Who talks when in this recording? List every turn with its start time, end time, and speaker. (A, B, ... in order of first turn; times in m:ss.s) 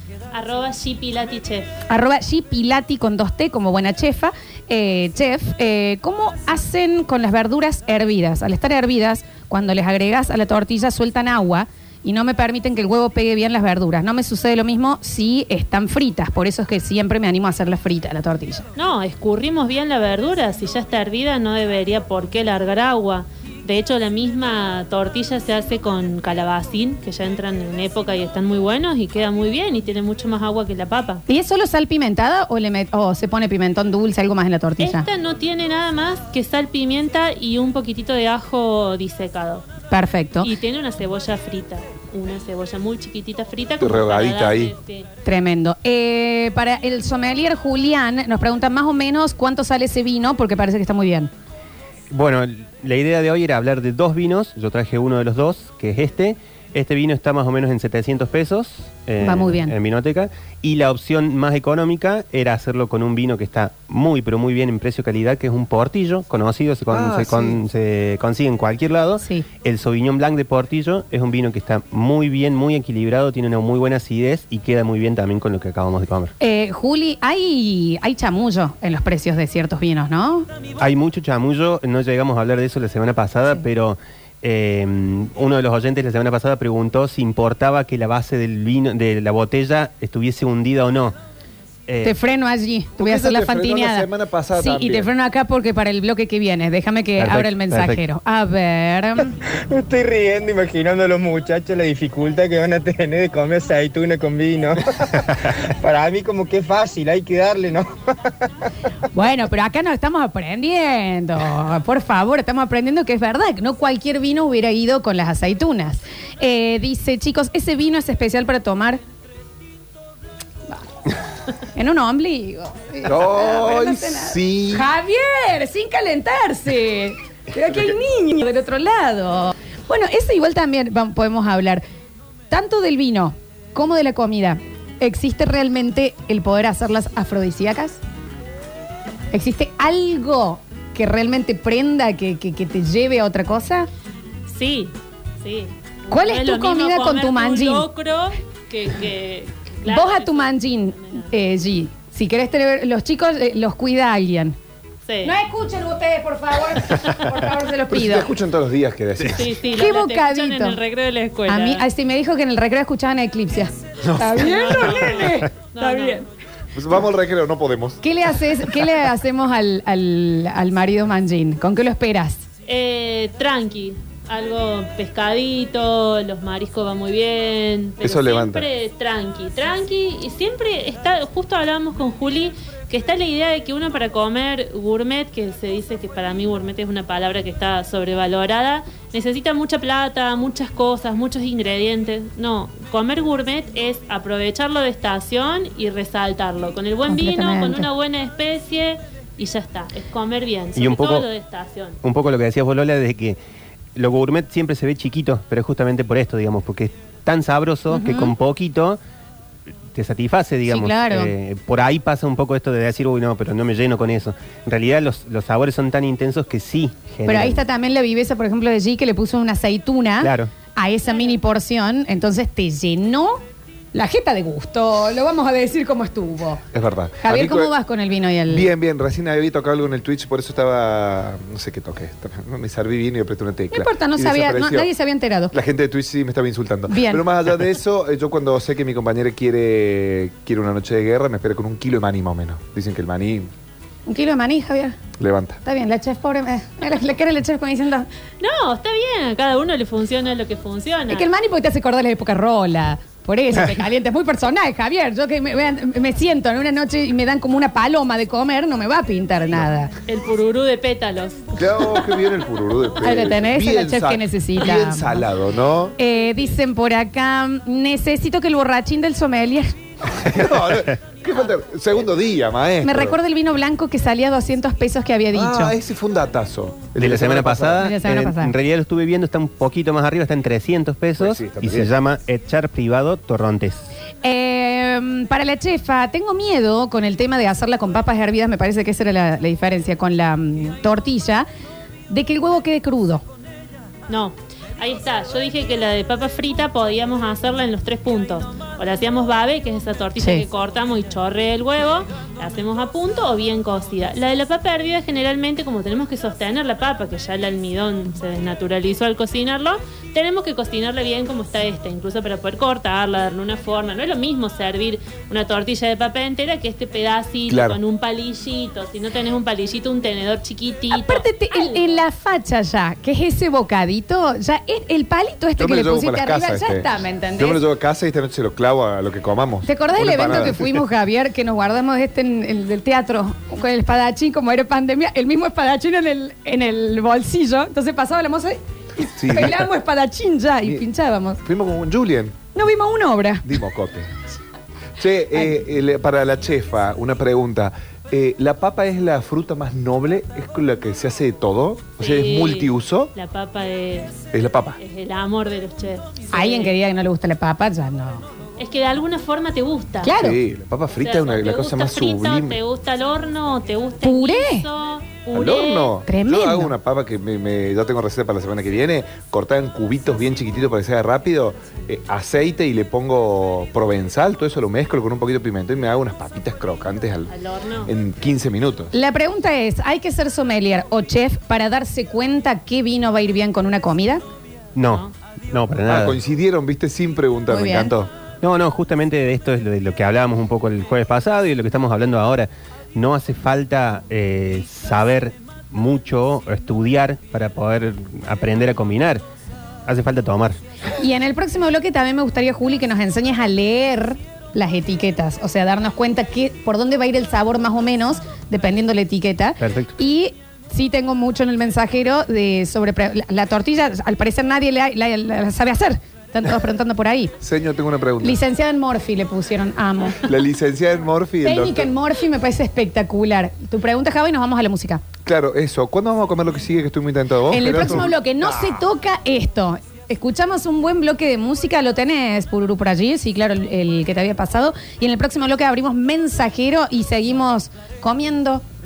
0:00.3-0:01.8 A
0:01.9-0:18.6 B
0:18.8-0:31.2 A
0:31.3-0:35.0 B
0:34.8-0:39.6 A
0:39.9-0:40.5 B
0:40.4-0:45.1 A
0:43.8-0:44.7 C
0:45.2-0:51.3 B
0:52.1-1:16.3 D
0:59.2-0:59.7 B
1:06.9-1:07.6 C
1:16.4-1:20.5 B
1:20.8-1:31.1 D
1:31.9-1:32.2 D
1:32.0-1:39.4 B
1:33.0-1:35.1 C
1:37.2-1:38.0 D
1:39.4-1:48.4 E
1:49.1-1:59.0 B
2:01.7-2:11.8 B
2:03.0-2:04.9 C
2:12.5-2:18.0 B
2:19.3-2:23.9 B
2:24.5-2:31.3 A
2:26.1-2:27.8 B
2:29.8-2:34.6 B
2:35.0-2:35.3 A
2:35.2-2:38.3 B
2:36.9-2:37.3 A
2:37.9-2:39.5 C
2:39.2-2:41.8 A
2:39.7-2:40.8 B
2:41.5-2:46.2 B
2:44.0-2:45.0 C
2:44.4-2:46.2 A
2:46.7-2:48.0 C
2:48.0-2:52.4 B
2:52.7-3:22.0 A
2:58.0-2:58.7 C
3:17.1-3:17.9 B
3:20.8-3:21.3 D
3:22.0-3:23.4 D
3:24.0-3:29.0 D
3:27.9-3:28.3 B
3:29.9-3:37.6 D
3:30.6-3:31.3 B
3:37.2-3:43.4 B
3:40.2-3:40.5 D
3:43.9-3:46.6 B
3:46.7-3:47.7 C
3:47.2-3:48.7 B
3:48.5-3:54.9 C
3:53.7-3:55.5 B
3:55.5-4:03.5 C
3:56.9-3:57.2 B
4:04.0-4:05.0 B
4:05.2-4:05.6 C
4:05.6-4:08.1 B
4:08.4-4:11.3 A
4:11.1-4:19.9 B
4:20.1-4:21.5 A
4:21.6-4:26.0 C
4:23.0-4:25.2 B
4:26.0-4:29.7 B
4:30.2-4:33.2 C
4:32.8-4:35.7 B
4:35.3-4:37.8 C
4:37.0-4:43.8 D
4:37.8-4:38.5 B
4:41.2-4:41.9 C
4:44.2-4:51.4 B
4:52.1-4:53.2 B
4:54.1-5:22.0 A
5:00.2-5:00.4 B
5:17.5-5:17.8 C
5:20.9-5:27.6 B
5:25.6-5:30.8 C
5:29.6-5:41.4 B
5:39.2-5:39.6 C
5:41.4-5:42.4 C
5:42.5-5:43.5 B
5:43.4-5:44.1 C
5:45.0-5:53.1 C
5:52.0-5:54.1 A
5:54.3-5:54.8 C
5:54.8-5:56.8 A
5:56.3-5:58.2 B
5:58.6-6:00.1 A
6:00.0-6:00.4 B
6:00.1-6:02.6 C
6:01.0-6:06.0 A
6:04.0-6:04.6 B
6:05.3-6:17.3 C
6:06.1-6:06.7 B
6:17.3-6:17.9 A
6:17.8-6:18.9 C
6:18.9-6:24.2 B
6:24.7-6:26.2 D
6:24.9-6:25.1 A
6:25.9-6:28.1 C
6:27.5-6:27.9 B
6:28.4-6:39.2 D
6:39.8-6:40.6 D
6:41.0-6:57.4 B
6:49.6-6:49.9 D
6:57.4-6:58.4 C
6:58.2-7:00.3 B
7:00.2-7:01.9 C
7:01.4-7:05.0 B
7:05.2-7:08.8 C
7:07.5-7:18.6 B